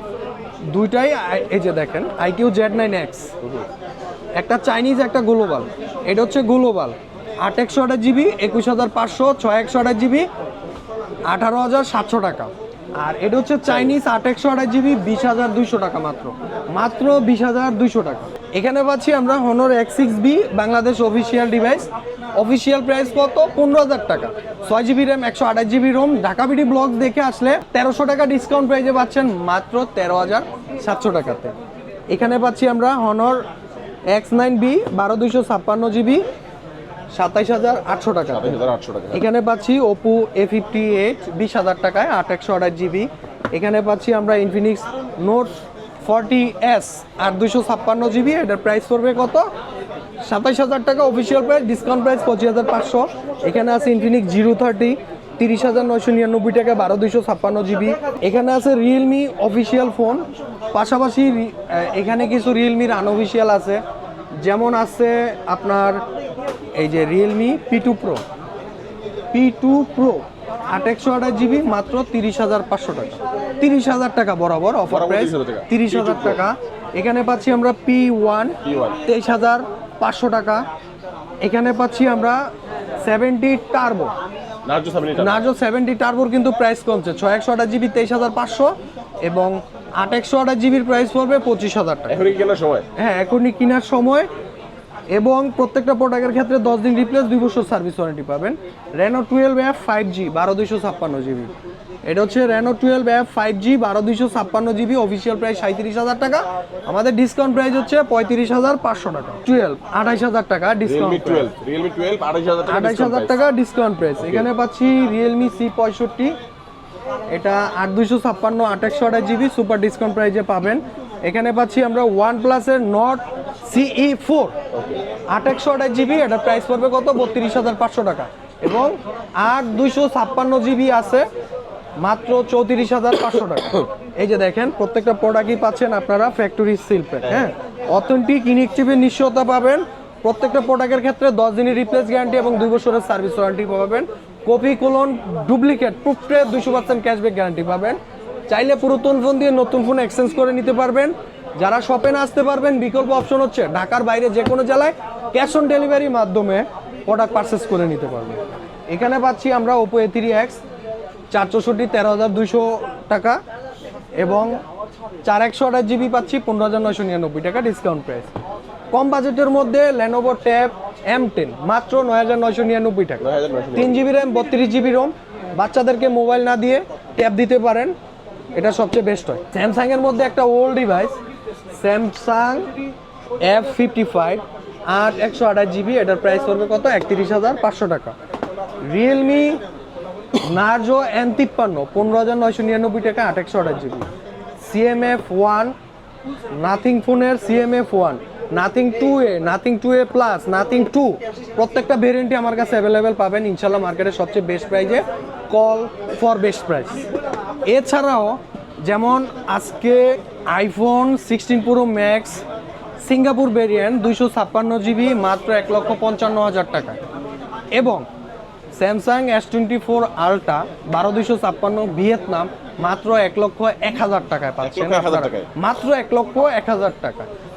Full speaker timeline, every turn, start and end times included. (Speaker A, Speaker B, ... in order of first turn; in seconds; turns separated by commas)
Speaker A: 0.7-3.3, Speaker B: 3.4-3.7, Speaker A: 4.3-10.3, Speaker A: 11.3-31.5, Speaker B: 13.7-13.9, Speaker A: 32.1-33.4, Speaker A: 34.1-36.2, Speaker A: 37.1-49.5, Speaker B: 38.3-39.2, Speaker A: 50.2-63.8, Speaker A: 64.3-66.0, Speaker A: 66.8-68.2, Speaker A: 69.3-80.7, Speaker B: 74.9-76.4, Speaker B: 78.6-79.0, Speaker A: 81.4-82.5, Speaker A: 83.0-84.1, Speaker B: 84.6-85.5, Speaker A: 85.2-92.2, Speaker B: 92.1-92.8, Speaker A: 93.0-94.3, Speaker A: 95.1-101.5, Speaker A: 102.0-111.5, Speaker B: 110.8-113.4, Speaker A: 112.7-116.3, Speaker B: 114.2-114.5, Speaker A: 117.3-124.6, Speaker B: 124.7-125.0, Speaker A: 125.3-131.3, Speaker A: 132.0-148.0, Speaker A: 148.5-160.6, Speaker A: 161.3-163.4, Speaker A: 164.2-164.6, Speaker A: 165.2-168.3, Speaker A: 168.9-173.2, Speaker B: 173.2-174.0, Speaker A: 173.7-177.9, Speaker A: 178.5-181.1, Speaker A: 181.7-182.7, Speaker A: 183.4-188.1, Speaker A: 188.8-189.6, Speaker A: 190.4-194.1, Speaker A: 194.6-195.7, Speaker A: 196.5-207.1, Speaker A: 207.7-212.4, Speaker A: 213.0-217.0, Speaker A: 217.7-218.1, Speaker A: 218.7-227.3, Speaker B: 224.6-225.5